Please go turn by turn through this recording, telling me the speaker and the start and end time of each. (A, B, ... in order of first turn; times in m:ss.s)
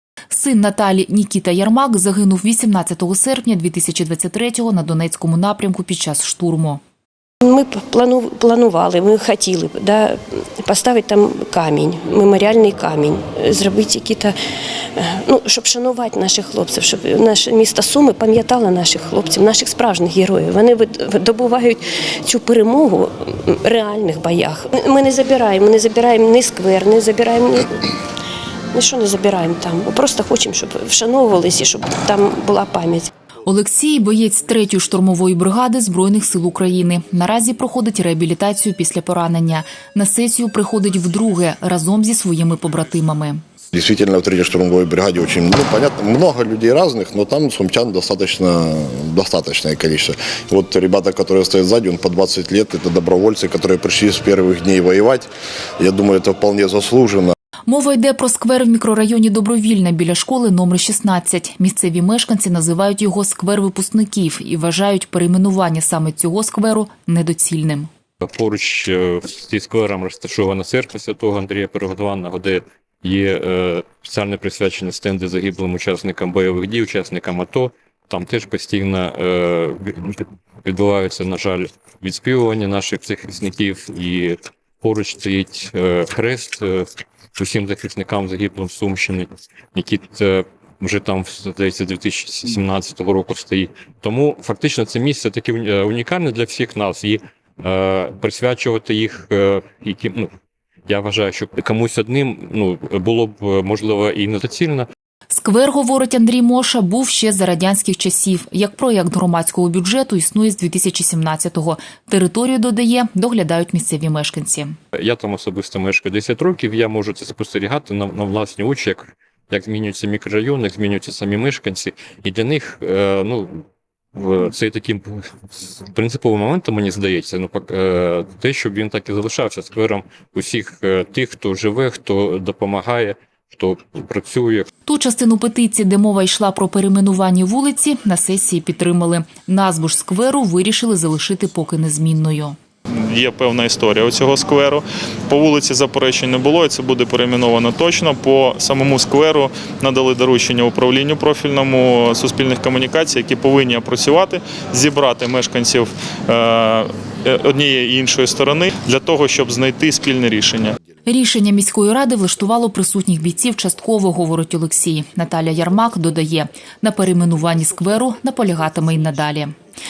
0:00.3-0:06.8 A
0:07.4-0:14.3 B
0:15.0-0:27.9 B
0:28.7-0:33.1 B
0:33.4-0:43.4 A
0:43.7-0:55.3 C
0:55.8-0:57.3 C
0:57.7-1:07.9 A
1:08.2-1:40.3 D
1:40.9-1:44.9 D
1:45.3-1:54.7 A
1:54.9-2:03.6 D
2:04.1-2:14.7 D
2:14.8-2:22.6 A
2:23.0-2:40.8 E
2:41.0-2:49.5 A